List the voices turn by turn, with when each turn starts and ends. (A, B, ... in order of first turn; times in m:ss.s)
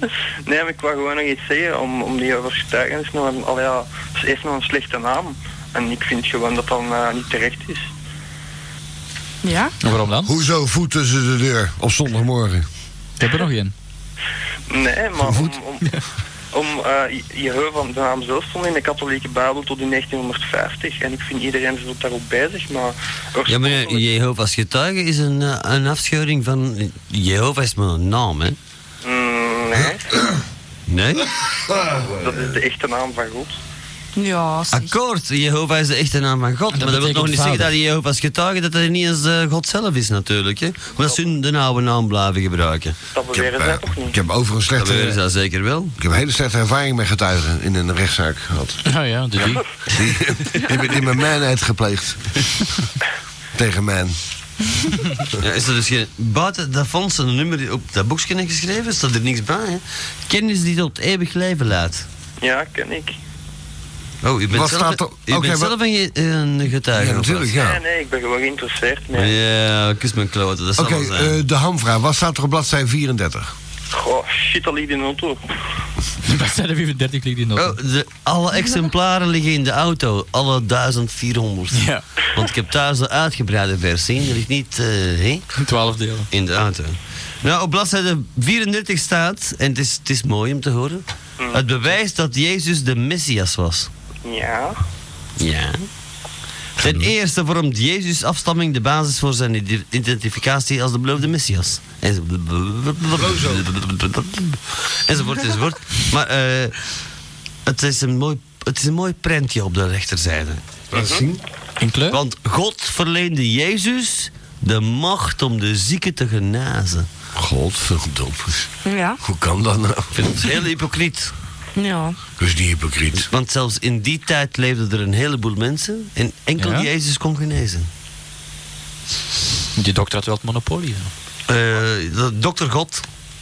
0:00.4-0:07.9 A
0:09.4-0:09.7 B
0:09.8-0:10.4 C
0:10.2-0:12.6 D
0:13.2-0:13.7 C
0:14.7-0:15.9 A
0:15.2-0:15.5 D
0:16.5-0:24.1 A
0:23.5-0:28.6 E
0:29.0-0:30.1 A
0:30.9-0:31.3 E
0:31.7-0:32.5 D
0:32.2-0:33.6 A
0:34.2-0:34.9 B
0:34.7-0:43.0 E
0:36.7-0:37.7 C
0:41.0-0:41.3 A
0:43.1-0:44.2 A
0:43.3-0:45.2 D
0:44.8-0:46.0 E
0:46.0-0:48.8 D
0:48.9-0:49.6 C
0:49.9-0:52.3 D
0:53.5-0:54.2 D
0:55.4-1:02.1 E
1:02.4-1:03.2 A
1:04.2-1:07.5 E
1:04.5-1:05.7 D
1:06.9-1:07.8 D
1:07.5-1:09.4 A
1:09.1-1:11.4 E
1:10.8-1:13.5 D
1:13.9-1:15.4 A
1:16.2-1:17.8 C
1:17.6-1:21.8 E
1:21.7-1:22.0 C
1:22.3-1:25.5 E
1:25.6-1:26.3 C
1:26.3-1:33.9 E
1:31.4-1:31.7 A
1:34.2-1:34.8 A
1:35.4-1:35.8 E
1:36.8-1:37.1 D
1:36.8-1:46.8 E
1:43.1-1:43.7 D
1:47.6-1:50.8 E
1:50.9-1:51.4 D
1:50.9-1:51.2 A
1:51.8-1:52.2 C
1:52.1-1:57.1 E
1:57.4-1:58.7 D
1:58.8-1:59.2 B
1:59.2-2:00.2 D
2:00.1-2:01.3 E
2:01.8-2:02.2 B
2:02.4-2:03.3 D
2:03.2-2:07.9 E
2:06.6-2:06.9 C
2:09.8-2:11.1 C
2:11.5-2:13.0 E